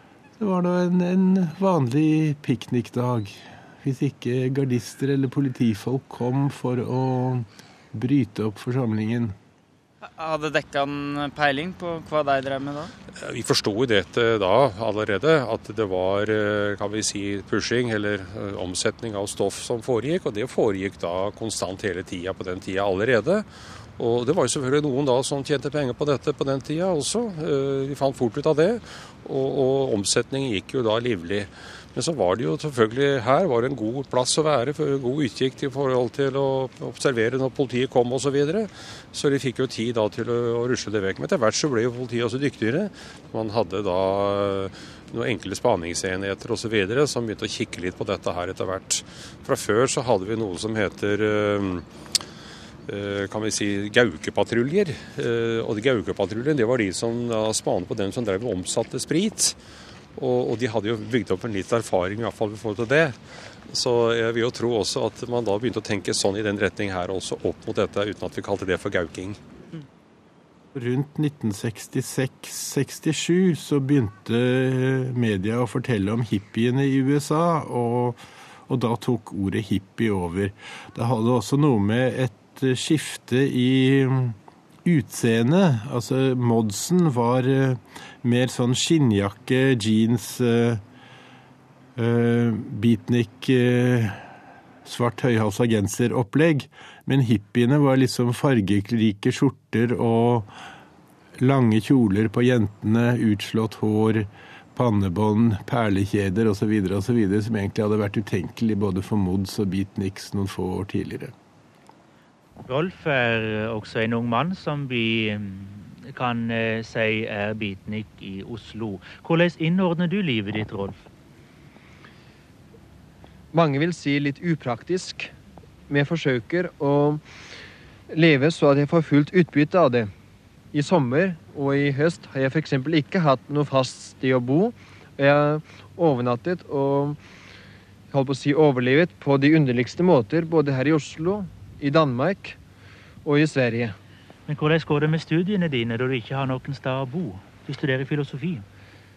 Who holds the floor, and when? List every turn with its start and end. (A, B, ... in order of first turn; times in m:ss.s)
0:00.4-0:09.3 A
0:10.2-0:12.9 B
0:13.2-0:23.4 C
0:24.0-0:51.8 C
0:52.9-0:59.6 C
1:00.2-1:03.2 C
1:03.7-1:09.4 C
1:10.7-1:30.8 A
1:32.0-1:34.3 A
1:34.8-1:40.5 A
1:41.4-1:51.3 A
1:52.7-2:00.9 D
2:03.5-2:05.3 E
2:05.9-2:07.2 E
2:08.1-2:10.1 E
2:10.7-2:17.2 E
2:18.1-2:22.6 E
2:23.2-2:23.9 E
2:24.5-2:28.6 D